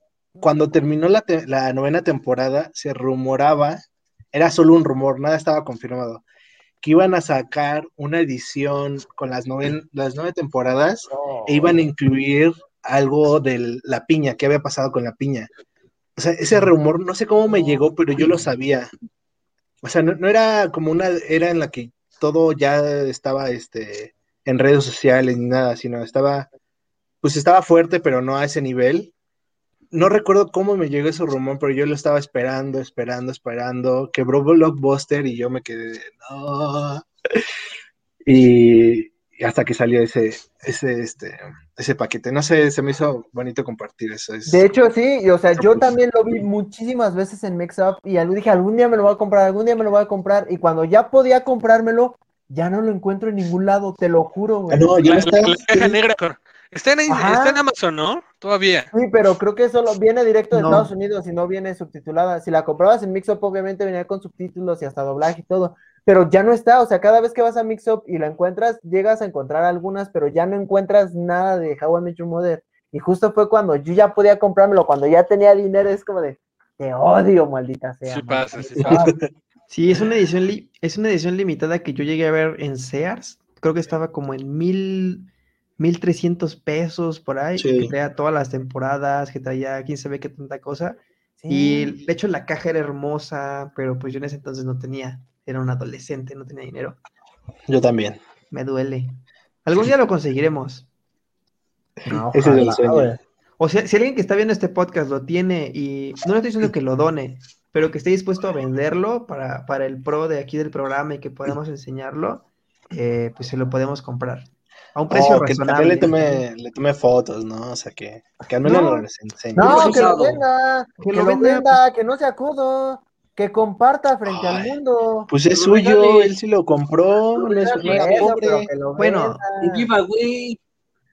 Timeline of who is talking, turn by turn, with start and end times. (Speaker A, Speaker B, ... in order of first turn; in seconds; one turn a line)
Speaker A: 0.4-3.8
Speaker A: 4.3-6.2
Speaker A: 6.8-15.5
Speaker B: 11.1-11.8
Speaker A: 16.1-18.9
Speaker A: 19.8-26.5
Speaker A: 27.2-29.1
Speaker A: 29.9-37.0
Speaker A: 38.2-44.7
Speaker B: 44.5-56.0
Speaker A: 54.7-55.6
Speaker C: 55.0-58.9
Speaker B: 57.1-57.6
Speaker B: 58.9-79.1
Speaker D: 60.5-60.9
Speaker C: 78.1-79.1
Speaker A: 78.8-79.2
Speaker D: 79.7-97.0
Speaker A: 87.6-87.9
Speaker B: 91.4-92.0
Speaker A: 97.7-98.2
Speaker D: 98.5-100.9
Speaker A: 102.0-103.2
Speaker B: 102.1-103.2
Speaker D: 103.6-116.4
Speaker A: 115.1-120.1
Speaker D: 118.6-119.0
Speaker B: 119.5-125.3
Speaker E: 119.6-120.4
Speaker D: 121.0-121.8
Speaker A: 124.2-124.8
Speaker A: 125.3-128.8
Speaker E: 125.5-126.3
Speaker B: 127.4-129.9
Speaker D: 128.9-129.4
Speaker E: 129.6-130.6